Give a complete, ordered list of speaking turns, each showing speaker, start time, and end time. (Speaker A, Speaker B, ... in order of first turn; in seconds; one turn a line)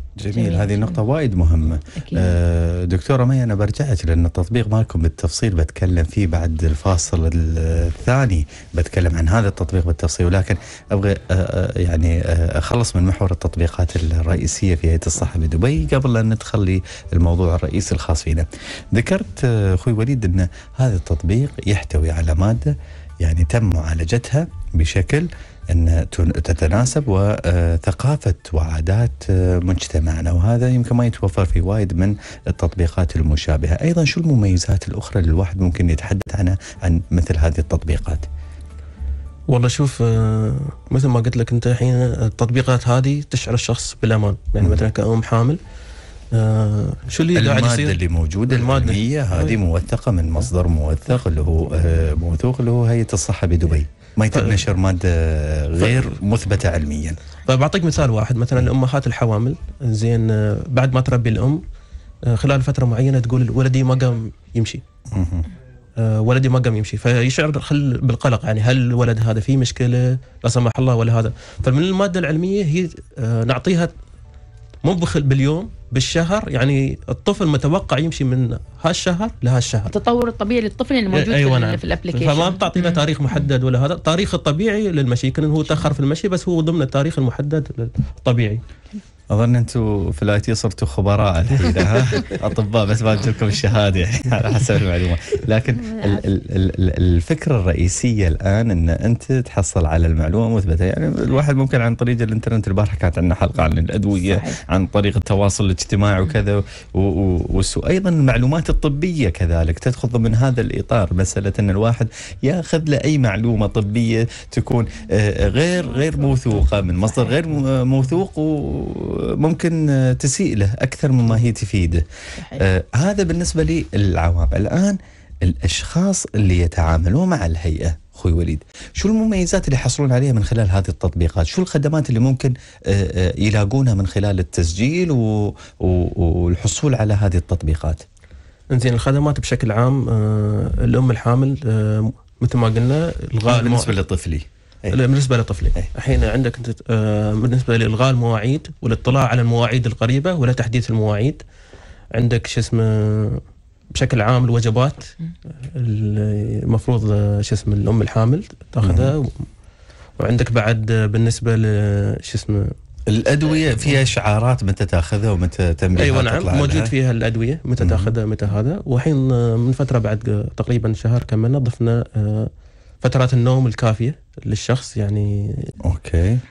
Speaker A: 0.2-38.3
Speaker B: 0.3-1.0
Speaker B: 2.0-2.3
Speaker C: 39.5-45.6
Speaker C: 46.3-49.6
Speaker A: 47.3-57.2
Speaker C: 54.3-54.6
Speaker C: 57.5-61.6
Speaker C: 62.2-64.8
Speaker A: 65.1-65.5
Speaker C: 66.0-73.9
Speaker C: 74.8-79.9
Speaker B: 79.9-83.0
Speaker C: 81.1-88.6
Speaker A: 89.3-138.0
Speaker B: 104.2-104.6
Speaker B: 122.4-122.6
Speaker C: 138.7-144.0
Speaker A: 143.4-145.0
Speaker C: 144.9-151.4
Speaker C: 152.1-153.4
Speaker C: 153.9-159.5
Speaker A: 158.8-159.1
Speaker C: 160.2-162.7
Speaker A: 163.1-166.9
Speaker C: 166.0-175.7
Speaker A: 167.8-168.1
Speaker A: 175.8-176.4